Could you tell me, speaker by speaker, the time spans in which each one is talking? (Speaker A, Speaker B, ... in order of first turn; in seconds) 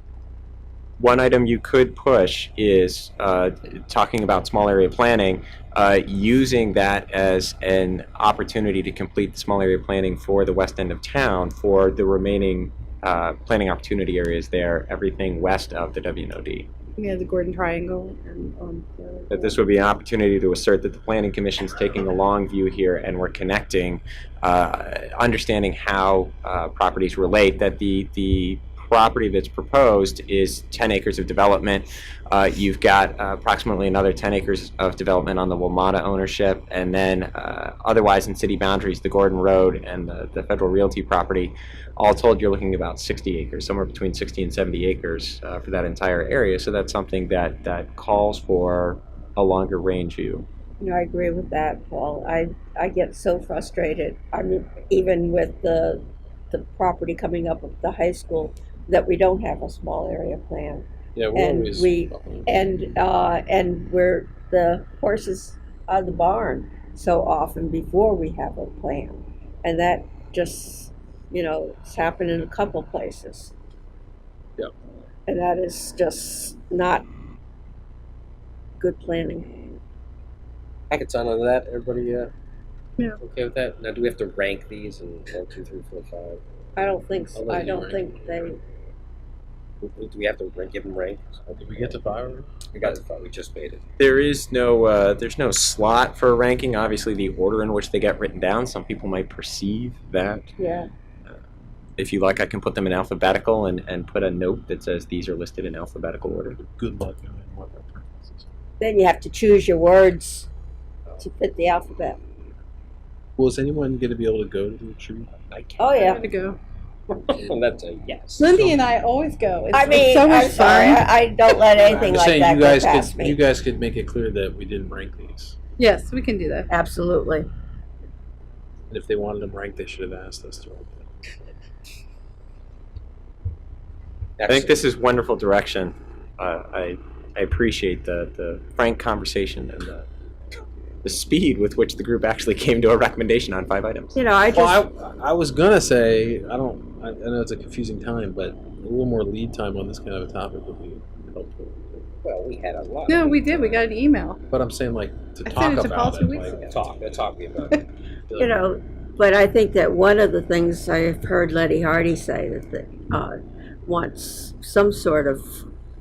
Speaker A: 1.0-16.7, 19.3-50.5, 94.0-100.5, 102.0-106.6, 134.5-140.1, 141.0-144.2
Speaker B: 17.0-19.6, 116.0-116.6, 118.4-121.0, 125.8-126.7, 153.1-154.4, 155.4-156.7
Speaker C: 50.8-73.5, 75.3-77.1, 78.8-79.5, 86.8-88.6, 100.6-100.9, 108.8-110.5, 111.2-112.2, 115.8-116.2, 119.7-123.4, 126.7-127.5, 144.2-144.9, 158.4-165.6
Speaker D: 61.1-62.5, 87.3-88.5, 91.5-92.6, 106.6-108.5, 113.4-115.3, 118.5-118.8, 121.7-125.5, 128.9-131.1, 144.5-152.1, 154.5-156.7, 158.3-158.6
Speaker E: 80.9-82.3, 83.2-86.4, 89.8-92.0, 92.7-93.8, 115.4-116.2, 117.1-118.5, 134.4-134.8, 152.2-153.9, 156.7-157.8